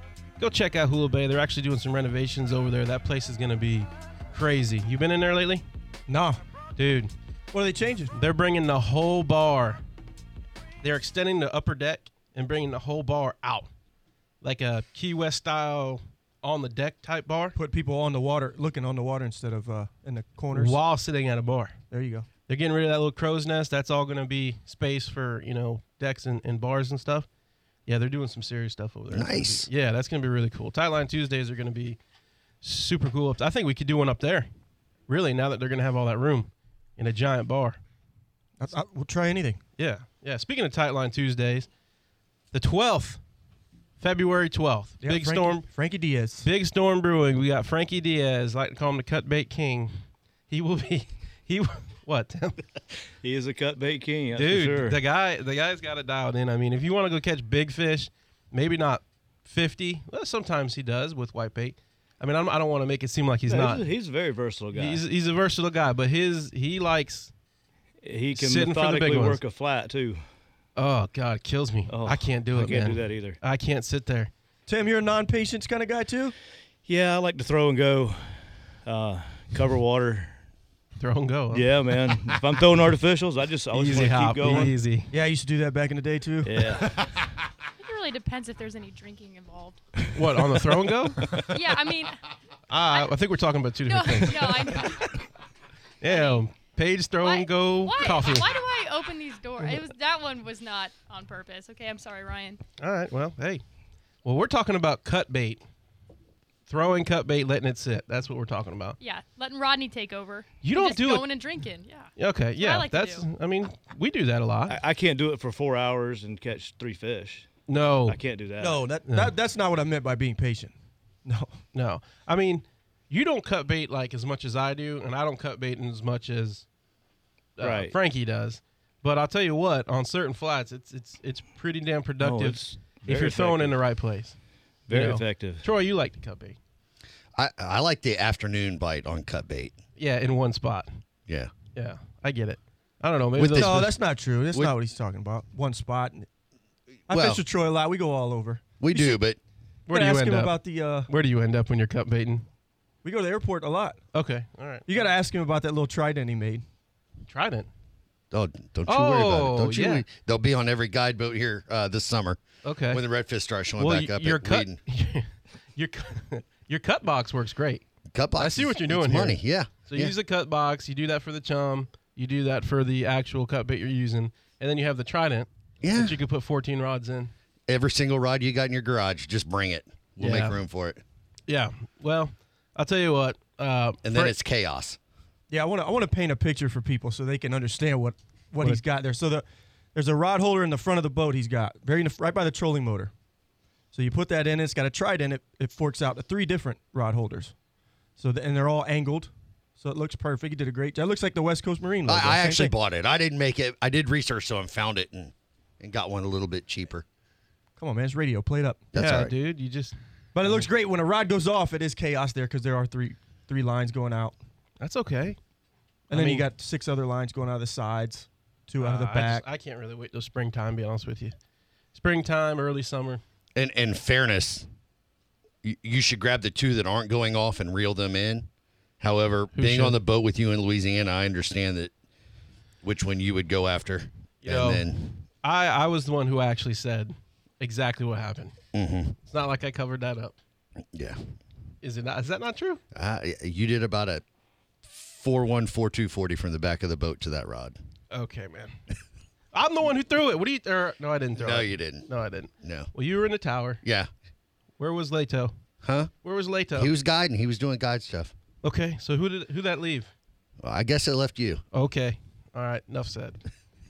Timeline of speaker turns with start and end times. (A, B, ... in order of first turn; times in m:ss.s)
0:00.4-0:05.6 A
0:06.1-0:06.4 B
0:06.8-0:07.1 A
0:07.5-0:08.1 B
0:08.1-0:09.8 A
0:10.8-0:13.7 A
0:14.4-0:17.6 A
0:17.6-0:20.8 B
0:20.5-0:21.8 A
0:21.9-0:22.3 B
0:22.5-0:27.3 A
0:27.8-0:32.0 A
0:29.1-0:29.7 C
0:32.6-0:34.5 A
0:35.1-0:37.8 A
0:38.6-0:39.6 B
0:39.8-0:41.7 A
0:42.5-0:43.2 A
0:44.0-0:45.6 A
0:45.0-0:46.5 B
0:46.4-0:49.9 A
0:50.5-0:52.6 A
0:53.2-0:55.0 D
0:54.3-1:03.9 A
1:03.5-1:05.0 D
1:04.7-1:07.3 A
1:08.0-1:10.2 D
1:08.3-1:09.4 A
1:10.8-1:14.3 A
1:11.9-1:13.4 D
1:14.7-1:16.3 B
1:16.8-1:20.4 D
1:21.0-1:21.8 A
1:21.5-1:24.7 D
1:23.7-1:25.1 A
1:24.4-1:26.8 B
1:26.4-1:26.9 D
1:27.8-1:29.8 E
1:30.1-1:31.4 A
1:31.2-1:31.5 D
1:31.3-1:32.2 E
1:32.7-1:34.9 A
1:33.9-1:35.2 E
1:36.0-1:38.5 A
1:36.0-1:36.4 E
1:37.2-1:42.6 E
1:42.8-1:43.6 A
1:44.2-1:45.6 A
1:46.7-1:49.0 A
1:49.0-1:53.3 E
1:50.6-1:51.2 A
1:52.2-1:54.8 A
1:54.7-1:57.5 D
1:57.7-1:58.2 A
1:58.1-1:58.8 D
1:58.6-2:01.6 B
1:59.1-1:59.3 A
2:01.7-2:06.6 A
2:07.6-2:14.4 A
2:07.6-2:07.9 D
2:12.2-2:13.8 D
2:14.9-2:15.6 D
2:14.9-2:16.6 A
2:17.4-2:19.7 C
2:20.0-2:20.9 A
2:21.7-2:23.9 A
2:23.4-2:24.0 C
2:23.5-2:26.3 B
2:27.1-2:27.4 C
2:27.1-2:29.2 B
2:28.8-2:29.4 C
2:29.9-2:32.4 A
2:29.9-2:31.1 B
2:33.0-2:34.0 B
2:34.1-2:35.0 A
2:34.9-2:36.6 B
2:37.3-2:37.7 A
2:38.3-2:44.8 C
2:38.9-2:40.0 A
2:42.6-2:43.0 A
2:43.8-2:47.8 A
2:48.1-2:50.1 C
2:48.4-2:57.3 A
2:55.8-2:56.2 C
2:57.7-3:01.0 C
3:00.2-3:00.6 A
3:01.5-3:04.3 A
3:04.0-3:05.0 C
3:05.5-3:13.1 B
3:13.9-3:17.5 B
3:18.2-3:22.7 B
3:22.0-3:27.0 C
3:27.8-3:28.8 B
3:28.9-3:29.3 C
3:28.9-3:30.7 A
3:30.3-3:34.4 B
3:34.8-3:35.4 A
3:36.1-3:39.4 B
3:36.1-3:36.5 A
3:38.8-3:41.3 A
3:41.9-3:43.2 A
3:43.5-3:44.7 C
3:45.6-3:48.5 C
3:49.0-3:51.9 C
3:49.5-3:50.0 A
3:52.8-3:55.1 C
3:54.4-3:54.9 A
3:55.4-3:58.5 A
3:58.7-3:59.2 C
3:59.2-4:00.4 A
4:00.9-4:01.2 C
4:01.8-4:02.8 A
4:02.9-4:04.2 C
4:04.8-4:07.8 C
4:08.1-4:08.7 A
4:09.5-4:13.8 A
4:11.4-4:12.1 C
4:12.6-4:12.9 C
4:13.8-4:14.1 C
4:14.8-4:15.5 A
4:15.8-4:16.1 C
4:16.2-4:16.9 A
4:16.7-4:18.3 C
4:18.6-4:20.1 A
4:20.6-4:21.6 C
4:21.7-4:23.4 A